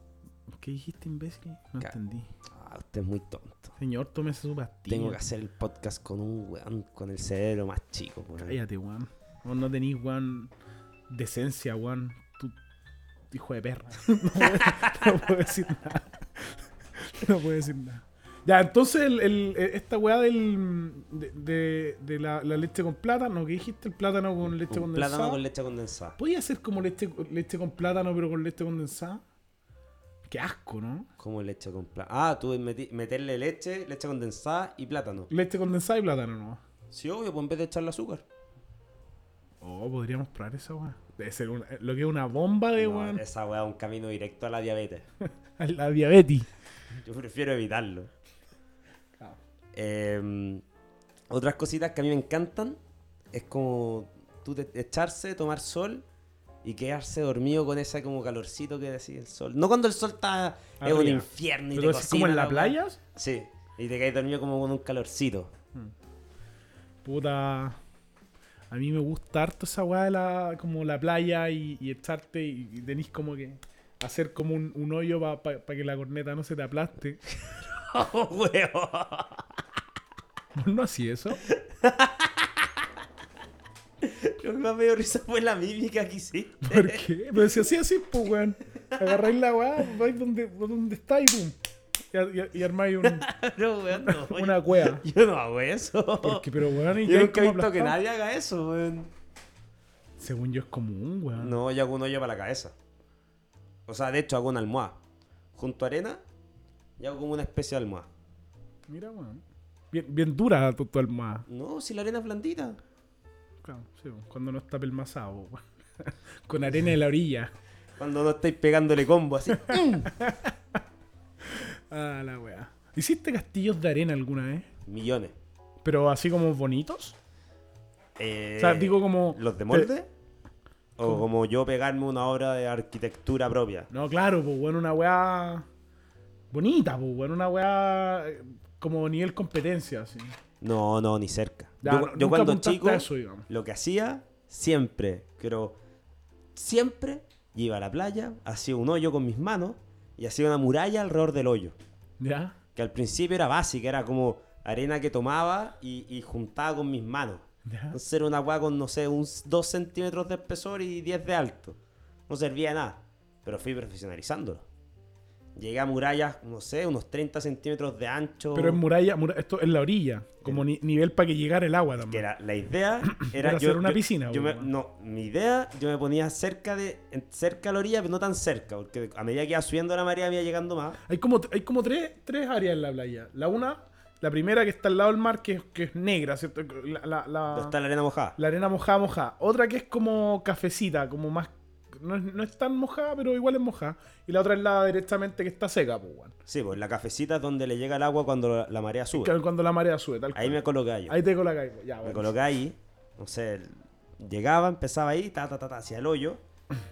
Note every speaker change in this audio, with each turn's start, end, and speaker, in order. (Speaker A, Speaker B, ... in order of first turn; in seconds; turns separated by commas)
Speaker A: 0.6-2.3, Speaker B: 2.5-3.8, Speaker A: 3.8-5.2, Speaker B: 4.9-8.6, Speaker A: 8.4-10.5, Speaker A: 11.1-12.6, Speaker A: 13.3-25.4, Speaker B: 14.6-15.1, Speaker B: 24.7-26.2, Speaker A: 26.2-29.2, Speaker A: 30.3-31.1, Speaker B: 31.2-35.3, Speaker A: 35.3-36.6, Speaker B: 36.9-38.2, Speaker A: 39.6-43.2, Speaker B: 42.8-45.1, Speaker A: 45.6-46.5, Speaker B: 46.9-48.1, Speaker B: 49.7-50.6, Speaker B: 51.3-52.8, Speaker B: 53.3-56.0, Speaker B: 56.6-65.5, Speaker A: 60.8-63.0, Speaker A: 67.0-67.8, Speaker A: 68.7-77.2, Speaker B: 77.5-79.5, Speaker A: 80.5-81.4, Speaker B: 81.5-82.9, Speaker B: 84.0-87.0, Speaker A: 86.6-91.5, Speaker A: 92.1-93.3, Speaker B: 93.0-96.5, Speaker A: 94.0-95.0, Speaker A: 96.2-98.0, Speaker B: 97.0-99.1, Speaker A: 100.2-101.6, Speaker B: 101.3-102.7, Speaker B: 103.9-105.0, Speaker B: 105.6-106.2, Speaker B: 107.0-108.1, Speaker A: 108.9-111.5, Speaker B: 111.5-112.8, Speaker A: 113.6-117.5, Speaker B: 118.0-120.1, Speaker A: 119.7-120.5, Speaker A: 121.5-124.7, Speaker B: 124.9-125.4, Speaker A: 125.8-127.2, Speaker B: 128.2-130.1, Speaker A: 128.6-129.9, Speaker B: 131.0-133.9, Speaker A: 133.9-135.7, Speaker A: 136.5-140.4, Speaker B: 140.6-145.8, Speaker A: 141.8-143.5, Speaker B: 146.5-151.8, Speaker A: 152.2-152.6, Speaker B: 152.8-164.7, Speaker A: 157.7-158.0, Speaker B: 165.6-168.8, Speaker A: 168.5-172.2, Speaker B: 172.0-181.0, Speaker A: 173.1-174.7, Speaker A: 181.1-187.8, Speaker B: 187.5-188.4, Speaker A: 188.4-196.3, Speaker B: 196.5-199.3, Speaker A: 199.1-202.4, Speaker B: 200.3-201.2, Speaker B: 202.0-206.4